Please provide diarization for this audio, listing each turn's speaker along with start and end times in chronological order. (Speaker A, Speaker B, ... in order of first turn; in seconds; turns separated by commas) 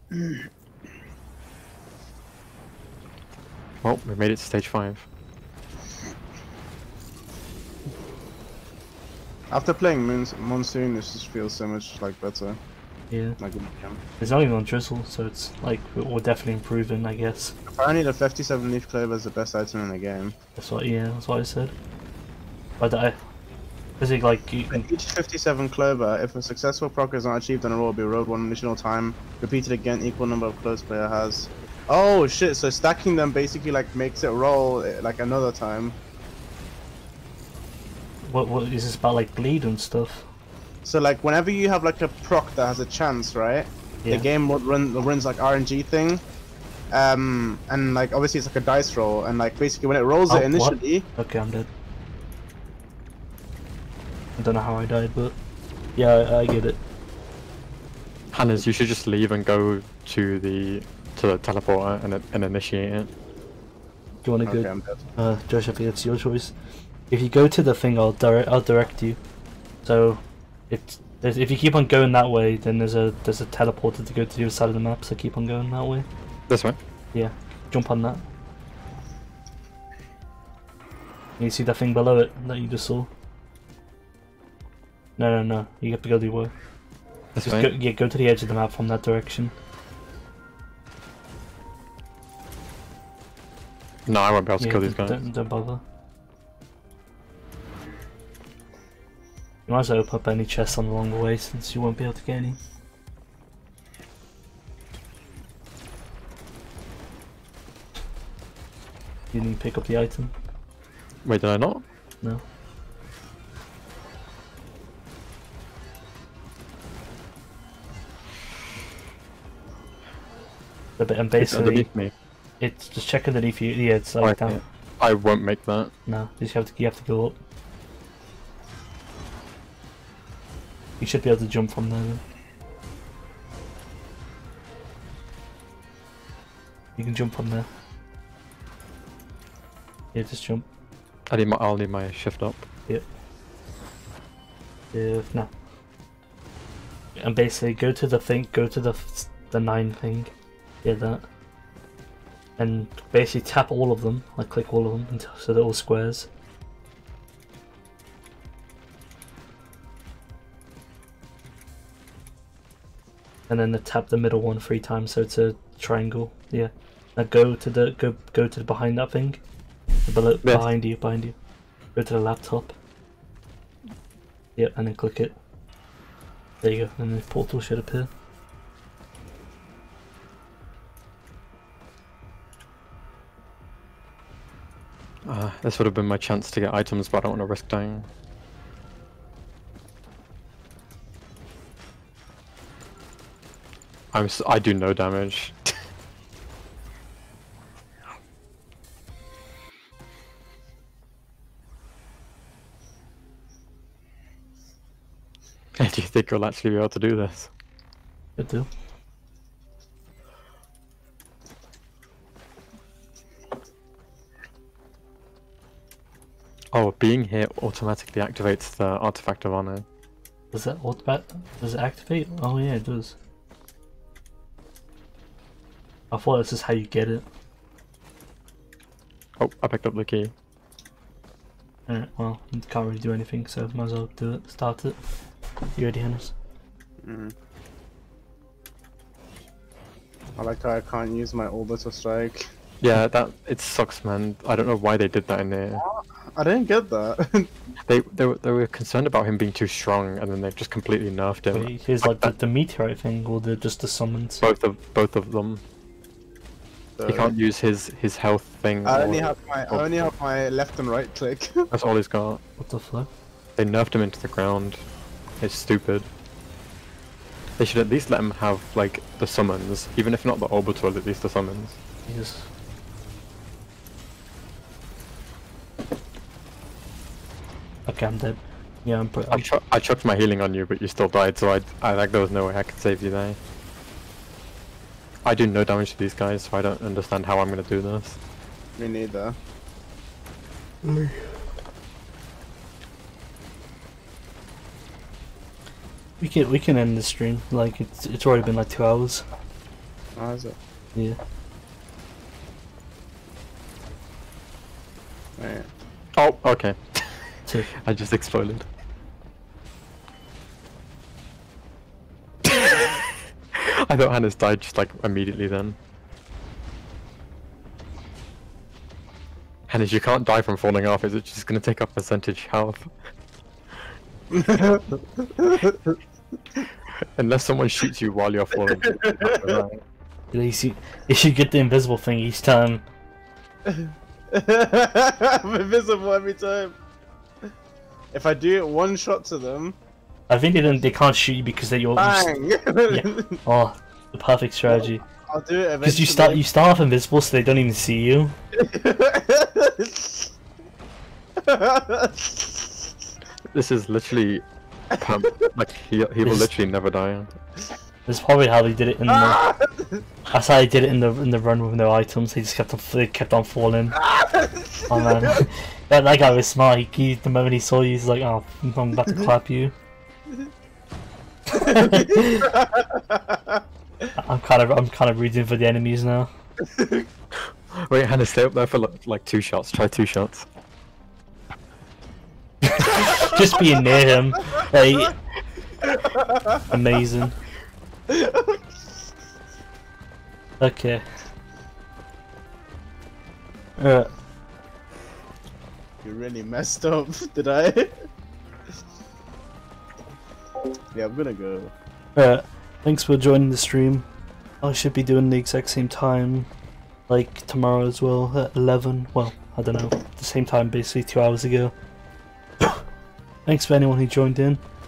Speaker A: 3.8-5.1, Speaker B: 9.5-12.6, Speaker C: 13.1-13.4, Speaker B: 13.4-14.0, Speaker C: 14.2-17.6, Speaker B: 17.7-20.4, Speaker C: 20.6-21.7, Speaker C: 22.8-23.2, Speaker C: 24.0-24.9, Speaker B: 24.7-36.0, Speaker C: 38.2-40.3, Speaker B: 40.9-46.2, Speaker B: 46.9-51.1, Speaker C: 50.3-51.7, Speaker C: 54.4-55.4, Speaker C: 56.0-56.8, Speaker A: 58.3-63.1, Speaker C: 64.2-66.5, Speaker B: 64.5-65.0, Speaker C: 67.1-69.2, Speaker C: 69.8-76.1, Speaker A: 76.5-76.8, Speaker C: 77.1-78.2, Speaker C: 81.4-83.1, Speaker C: 85.2-86.5, Speaker A: 87.3-87.7, Speaker C: 87.4-89.5, Speaker A: 94.1-95.2, Speaker C: 94.6-95.8, Speaker C: 99.7-102.6, Speaker C: 109.3-110.3, Speaker A: 111.2-111.8, Speaker C: 121.0-121.9, Speaker A: 121.4-122.1, Speaker C: 122.6-124.6, Speaker A: 124.2-125.9, Speaker C: 126.1-127.4, Speaker C: 131.0-132.2, Speaker C: 137.0-137.7, Speaker C: 140.1-140.7, Speaker A: 141.3-142.7, Speaker C: 144.9-145.5, Speaker C: 147.2-150.3, Speaker C: 150.8-151.2, Speaker C: 152.6-156.3, Speaker C: 163.5-169.4, Speaker C: 170.1-171.4, Speaker C: 171.9-172.7, Speaker C: 174.6-175.4, Speaker C: 176.6-178.1, Speaker A: 185.2-188.1, Speaker A: 194.1-195.8, Speaker A: 205.8-207.5, Speaker C: 208.4-208.7, Speaker A: 216.7-219.8, Speaker C: 220.5-223.2, Speaker C: 226.1-227.2, Speaker A: 229.4-230.3, Speaker C: 231.9-235.0, Speaker C: 235.7-236.3, Speaker B: 237.0-237.3, Speaker B: 240.4-242.5, Speaker A: 242.8-245.8, Speaker B: 245.8-247.5, Speaker A: 247.9-252.3, Speaker C: 251.5-254.4, Speaker A: 254.4-255.6, Speaker B: 257.0-257.3, Speaker A: 257.1-259.9, Speaker B: 258.9-261.7, Speaker A: 261.7-262.4, Speaker C: 262.6-263.1, Speaker A: 263.6-264.8, Speaker A: 265.4-266.1, Speaker A: 267.6-271.8, Speaker C: 272.1-272.5, Speaker C: 277.9-279.4, Speaker A: 279.3-283.4, Speaker A: 285.2-288.2, Speaker B: 288.8-289.4, Speaker C: 290.8-291.4, Speaker C: 296.2-299.2, Speaker B: 300.2-300.6, Speaker B: 305.4-305.7, Speaker A: 306.2-308.7, Speaker A: 312.4-315.8, Speaker A: 319.7-322.9, Speaker B: 324.3-326.0, Speaker A: 326.9-329.8, Speaker B: 328.8-329.6, Speaker C: 330.3-332.8, Speaker B: 333.7-336.8, Speaker B: 338.1-339.8, Speaker C: 340.3-342.3, Speaker B: 342.0-343.4, Speaker C: 342.9-345.0, Speaker B: 344.7-346.4, Speaker C: 345.8-348.4, Speaker B: 348.5-350.3, Speaker B: 351.4-352.8, Speaker A: 353.5-357.4, Speaker C: 356.2-356.5, Speaker C: 358.1-359.4, Speaker B: 359.1-360.0, Speaker C: 360.3-364.0, Speaker B: 364.0-365.4, Speaker C: 364.9-369.7, Speaker C: 371.5-372.5, Speaker B: 371.9-373.6, Speaker C: 374.2-376.3, Speaker B: 376.8-377.0, Speaker A: 377.7-380.5, Speaker C: 382.6-385.2, Speaker B: 385.8-386.6, Speaker C: 386.7-387.4, Speaker B: 388.1-388.6, Speaker C: 390.6-391.1, Speaker C: 393.8-394.1, Speaker B: 396.0-398.1, Speaker B: 400.9-401.7, Speaker C: 402.2-404.1, Speaker C: 404.6-406.5, Speaker C: 407.1-411.7, Speaker C: 413.5-414.6